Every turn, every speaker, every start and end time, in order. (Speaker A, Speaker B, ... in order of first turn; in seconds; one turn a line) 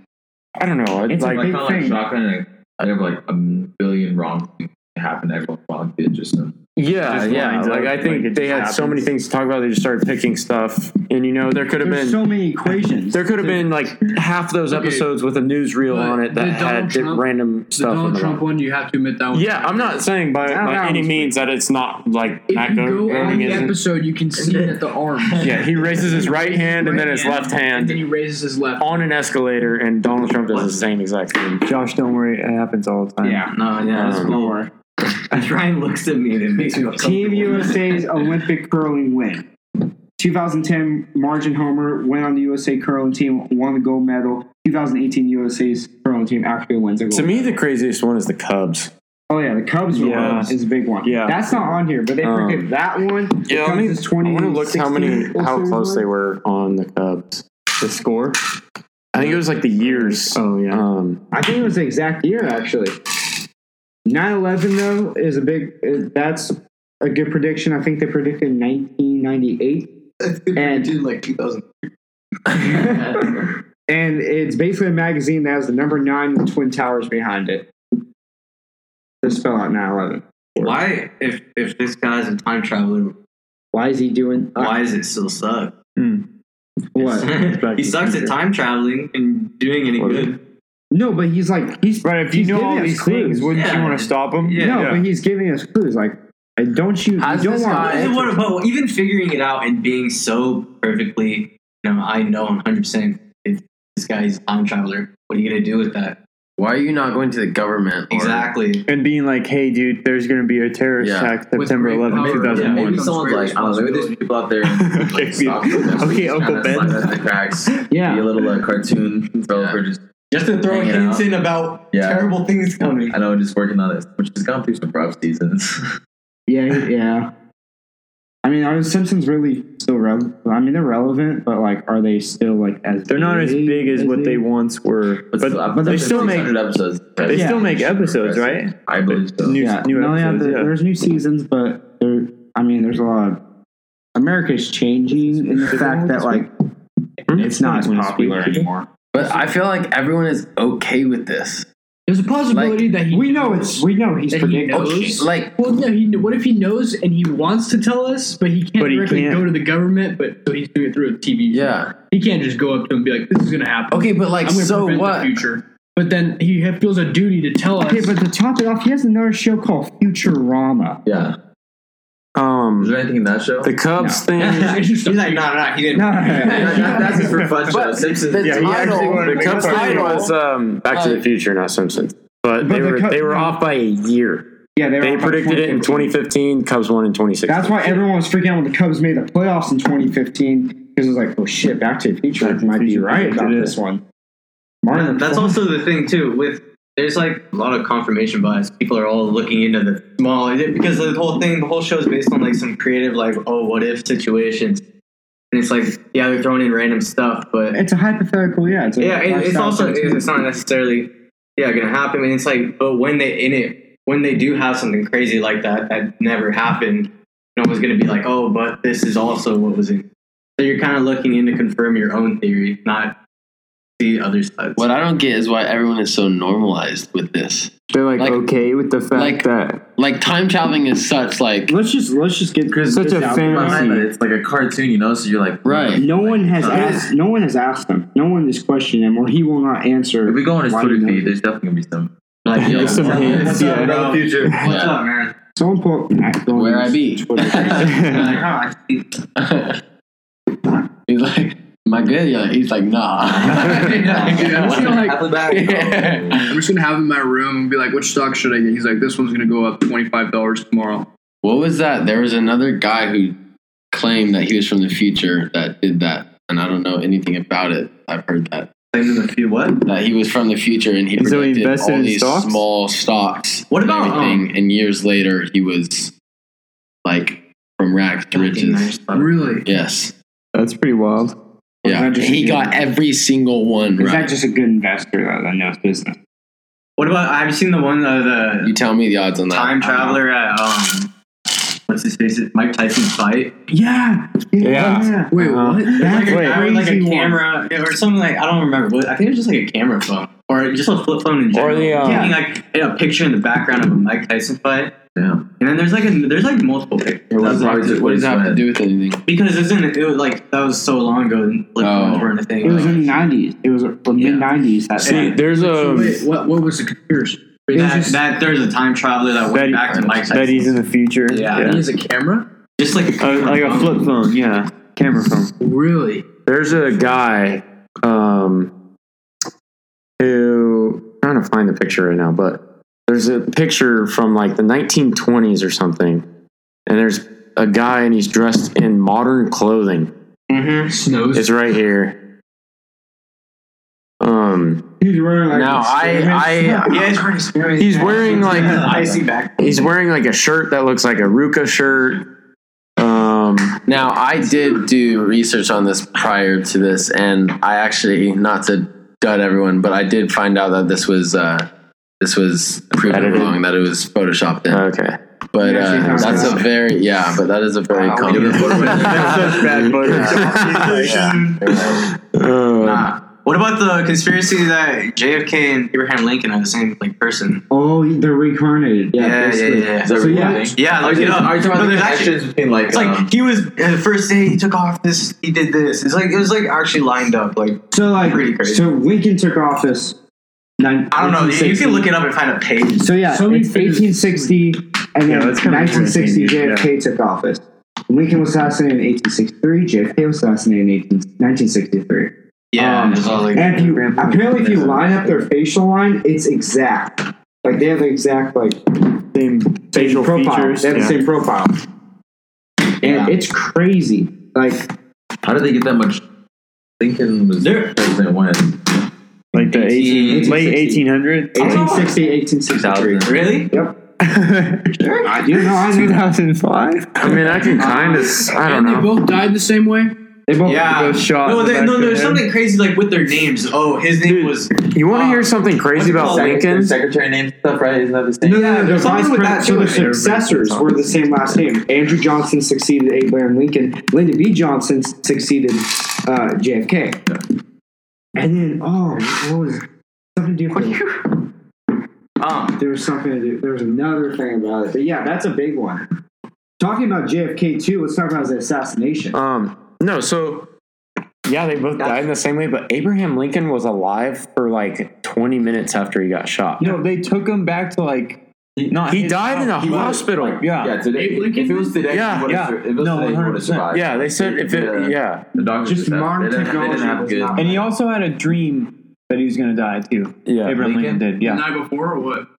Speaker A: 0.6-1.5
Speaker B: 1.1-2.1
Speaker C: 1.2-6.5
Speaker A: 6.8-12.2
Speaker D: 7.1-9.1
Speaker B: 11.8-13.9
Speaker A: 13.1-18.4
Speaker E: 14.7-15.1
Speaker E: 15.9-19.9
Speaker A: 19.3-23.8
Speaker B: 20.5-21.4
Speaker E: 22.5-29.1
Speaker B: 23.2-23.7
Speaker A: 25.4-28.1
Speaker A: 28.8-31.6
Speaker F: 30.5-30.9
Speaker D: 31.6-33.5
Speaker B: 33.2-34.7
Speaker F: 33.5-38.1
Speaker A: 33.9-34.4
Speaker B: 37.0-39.4
Speaker B: 40.2-47.6
Speaker A: 47.1-48.9
Speaker B: 49.3-56.1
Speaker D: 49.9-51.6
Speaker A: 50.1-50.4
Speaker A: 52.2-52.7
Speaker A: 53.5-57.4
Speaker D: 57.8-58.4
Speaker A: 59.1-61.2
Speaker D: 59.2-60.8
Speaker B: 61.3-63.0
Speaker B: 64.1-69.9
Speaker F: 70.2-71.7
Speaker B: 70.5-70.9
Speaker B: 72.5-77.7
Speaker F: 72.6-73.3
Speaker B: 79.2-80.8
Speaker F: 80.6-83.1
Speaker B: 83.7-84.8
Speaker F: 84.5-85.7
Speaker D: 86.0-86.2
Speaker B: 87.0-87.3
Speaker F: 87.0-90.4
Speaker D: 87.5-88.3
Speaker A: 87.6-88.1
Speaker A: 90.0-90.3
Speaker B: 90.9-93.5
Speaker D: 92.0-95.0
Speaker F: 93.5-95.0
Speaker B: 94.6-98.3
Speaker G: 97.2-98.1
Speaker F: 97.8-106.2
Speaker G: 106.6-108.5
Speaker F: 108.1-108.8
Speaker D: 108.9-113.0
Speaker G: 111.0-111.3
Speaker E: 111.5-114.2
Speaker C: 112.1-120.0
Speaker F: 112.5-113.4
Speaker D: 114.7-117.3
Speaker B: 117.9-118.2
Speaker G: 119.5-119.8
Speaker F: 120.3-123.2
Speaker C: 120.7-121.3
Speaker C: 121.9-122.4
Speaker C: 123.1-125.8
Speaker B: 126.5-127.3
Speaker B: 128.4-134.4
Speaker D: 133.1-136.6
Speaker C: 135.3-139.6
Speaker B: 135.7-136.5
Speaker D: 137.2-140.7
Speaker B: 137.3-137.7
Speaker B: 139.6-143.4
Speaker B: 144.2-146.5
Speaker E: 145.3-145.8
Speaker D: 145.7-146.4
Speaker D: 147.3-148.7
Speaker B: 147.3-148.9
Speaker G: 149.1-151.7
Speaker E: 152.1-168.2
Speaker G: 152.5-152.8
Speaker B: 153.1-155.3
Speaker G: 154.7-155.5
Speaker D: 158.8-159.6
Speaker G: 161.5-161.9
Speaker G: 163.9-165.4
Speaker B: 167.8-171.0
Speaker C: 171.1-171.3
Speaker A: 172.4-172.9
Speaker C: 172.8-173.7
Speaker A: 173.6-174.8
Speaker B: 174.0-174.2
Speaker F: 174.4-177.2
Speaker E: 174.6-175.4
Speaker B: 175.9-177.3
Speaker C: 176.4-179.2
Speaker G: 176.5-180.3
Speaker D: 178.4-180.2
Speaker B: 178.9-180.3
Speaker A: 179.2-184.5
Speaker G: 180.9-181.2
Speaker B: 182.6-183.6
Speaker B: 184.8-186.1
Speaker A: 185.0-188.1
Speaker B: 187.5-194.0
Speaker D: 192.4-193.8
Speaker B: 194.8-195.6
Speaker F: 194.9-204.8
Speaker F: 205.5-207.8
Speaker B: 207.7-210.2
Speaker F: 209.0-220.0
Speaker F: 220.6-223.1
Speaker F: 224.0-224.9
Speaker G: 224.8-228.4
Speaker D: 227.9-229.8
Speaker G: 229.1-231.7
Speaker B: 231.7-233.9
Speaker C: 232.7-237.1
Speaker D: 232.9-234.1
Speaker G: 235.7-236.0
Speaker B: 236.0-241.3
Speaker G: 236.7-237.0
Speaker C: 240.3-242.1
Speaker F: 242.4-245.3
Speaker D: 242.6-244.7
Speaker G: 242.6-243.6
Speaker C: 242.9-244.3
Speaker B: 243.2-244.0
Speaker G: 244.6-245.0
Speaker B: 245.6-248.5
Speaker G: 246.5-248.3
Speaker F: 247.6-249.0
Speaker D: 247.8-248.4
Speaker G: 249.4-249.8
Speaker G: 251.0-256.6
Speaker C: 253.4-256.4
Speaker F: 253.7-254.8
Speaker E: 254.3-255.3
Speaker E: 256.5-261.1
Speaker G: 261.4-263.4
Speaker G: 263.9-268.7
Speaker F: 268.9-269.9
Speaker G: 269.9-276.1
Speaker D: 271.2-272.6
Speaker F: 273.7-274.5
Speaker G: 277.1-279.0
Speaker F: 278.3-279.6
Speaker E: 279.1-279.6
Speaker G: 279.6-280.1
Speaker D: 280.5-281.4
Speaker G: 281.8-284.3
Speaker B: 281.9-282.9
Speaker B: 284.0-286.1
Speaker F: 287.0-288.8
Speaker G: 288.6-290.2
Speaker F: 289.5-291.1
Speaker F: 291.9-293.6
Speaker E: 293.7-296.3
Speaker B: 294.5-295.3
Speaker D: 294.6-295.2
Speaker A: 294.7-295.9
Speaker F: 295.9-304.9
Speaker B: 296.0-297.4
Speaker D: 296.3-296.6
Speaker A: 301.5-302.3
Speaker B: 302.0-302.4
Speaker C: 305.1-305.5
Speaker F: 305.6-307.6
Speaker G: 307.3-309.2
Speaker C: 307.4-308.6
Speaker F: 309.3-313.2
Speaker G: 311.8-312.3
Speaker B: 312.6-315.4
Speaker F: 314.2-314.5
Speaker A: 315.0-316.2
Speaker E: 315.1-318.1
Speaker F: 317.7-320.8
Speaker B: 317.7-318.2
Speaker D: 319.5-321.8
Speaker F: 321.3-324.1
Speaker D: 323.2-325.5
Speaker E: 325.6-326.2
Speaker A: 326.5-328.7
Speaker A: 330.2-336.2
Speaker A: 336.9-340.1
Speaker F: 340.5-341.1
Speaker E: 340.9-341.5
Speaker A: 341.3-342.1
Speaker A: 344.2-344.8
Speaker B: 345.0-347.1
Speaker G: 345.5-347.2
Speaker F: 346.8-349.9
Speaker A: 347.8-349.0
Speaker B: 348.0-348.8
Speaker A: 349.6-352.2
Speaker A: 353.0-353.8
Speaker G: 353.9-361.7
Speaker G: 362.2-364.8
Speaker A: 363.1-363.6
Speaker A: 364.7-365.2
Speaker G: 365.5-369.5
Speaker B: 365.6-366.6
Speaker A: 366.0-366.7
Speaker C: 368.1-369.8
Speaker D: 368.4-371.4
Speaker A: 368.9-371.0
Speaker F: 370.0-372.0
Speaker C: 371.7-372.1
Speaker A: 372.0-373.1
Speaker F: 372.8-377.6
Speaker B: 377.7-380.8
Speaker F: 379.1-388.9
Speaker C: 379.4-383.3
Speaker B: 387.9-390.1
Speaker B: 390.8-392.1
Speaker F: 391.1-393.2
Speaker B: 393.0-408.8
Speaker E: 393.2-394.5
Speaker D: 395.3-396.9
Speaker F: 402.7-403.8
Speaker D: 402.8-405.4
Speaker D: 409.3-411.2
Speaker B: 409.9-411.8
Speaker B: 413.0-414.9
Speaker F: 413.0-413.3
Speaker C: 415.4-416.2
Speaker C: 417.0-418.9
Speaker F: 417.6-418.0
Speaker D: 419.5-422.0
Speaker F: 419.6-420.6
Speaker B: 420.3-424.0
Speaker F: 421.6-422.3
Speaker C: 422.7-423.6
Speaker F: 423.2-423.7
Speaker D: 424.2-428.0
Speaker B: 425.2-426.3
Speaker A: 427.2-429.2
Speaker E: 427.8-430.1
Speaker B: 430.5-430.9
Speaker F: 430.6-436.6
Speaker D: 430.8-432.5
Speaker A: 434.7-436.9
Speaker C: 436.0-438.7
Speaker B: 438.4-447.2
Speaker F: 438.5-440.2
Speaker D: 439.8-441.5
Speaker B: 448.4-449.8
Speaker B: 450.4-451.1
Speaker F: 450.7-451.0
Speaker F: 452.4-452.8
Speaker B: 452.8-456.1
Speaker B: 456.8-459.4
Speaker A: 459.3-460.7
Speaker A: 461.4-467.0
Speaker F: 462.0-462.3
Speaker D: 466.8-471.0
Speaker A: 469.1-470.6
Speaker C: 469.8-477.6
Speaker E: 471.0-472.2
Speaker A: 472.1-472.7
Speaker D: 472.4-473.9
Speaker A: 473.9-475.4
Speaker B: 475.8-477.9
Speaker D: 477.6-481.6
Speaker A: 480.5-480.8
Speaker C: 480.8-481.3
Speaker E: 481.4-482.5